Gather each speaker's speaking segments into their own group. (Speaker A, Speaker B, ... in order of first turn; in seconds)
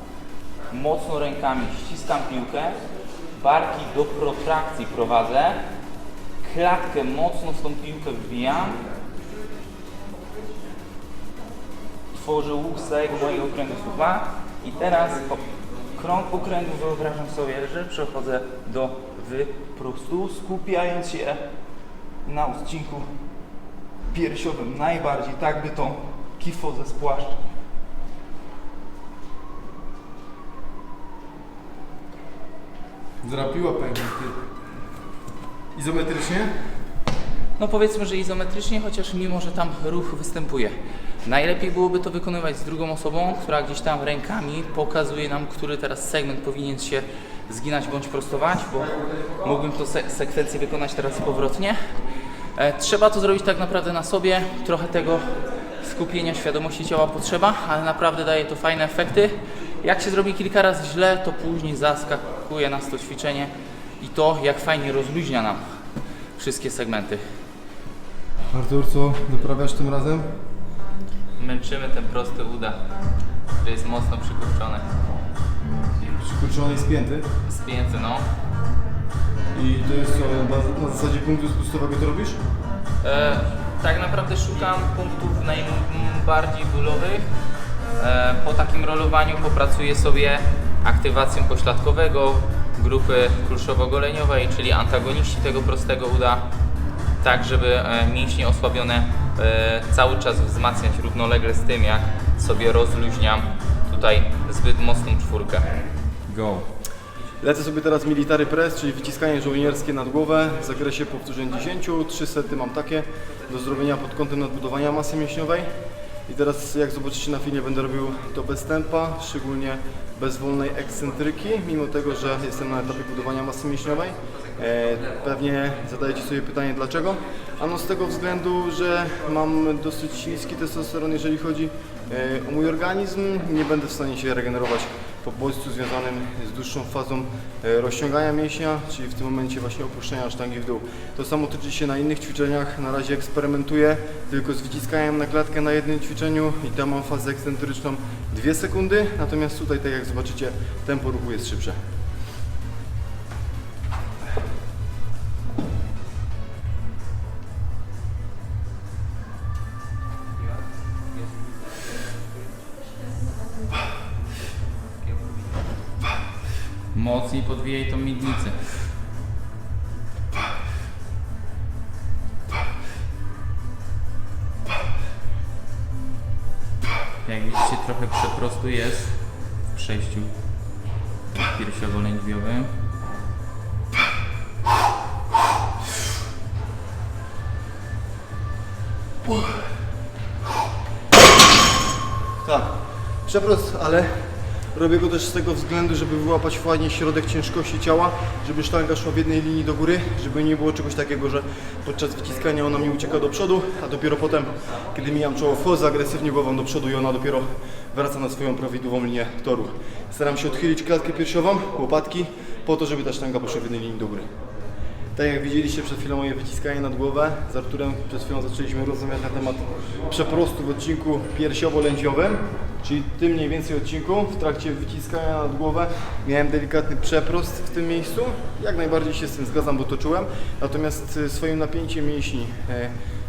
Speaker A: 0.7-2.8, 3.3-5.6, 6.4-8.8, 12.1-21.4, 22.2-23.1, 24.1-27.4, 37.6-51.9, 52.5-65.6, 66.3-67.2, 71.4-72.8, 73.5-74.8, 77.5-78.3, 83.0-87.3, 88.0-96.5, 97.2-105.8, 166.9-168.6, 177.2-180.3, 181.4-182.7
Speaker B: 33.2-34.4, 35.7-36.6, 68.5-70.3, 76.0-77.2, 79.5-82.4, 106.3-106.7, 107.4-115.7, 116.3-151.8, 192.4-214.3, 215.1-232.9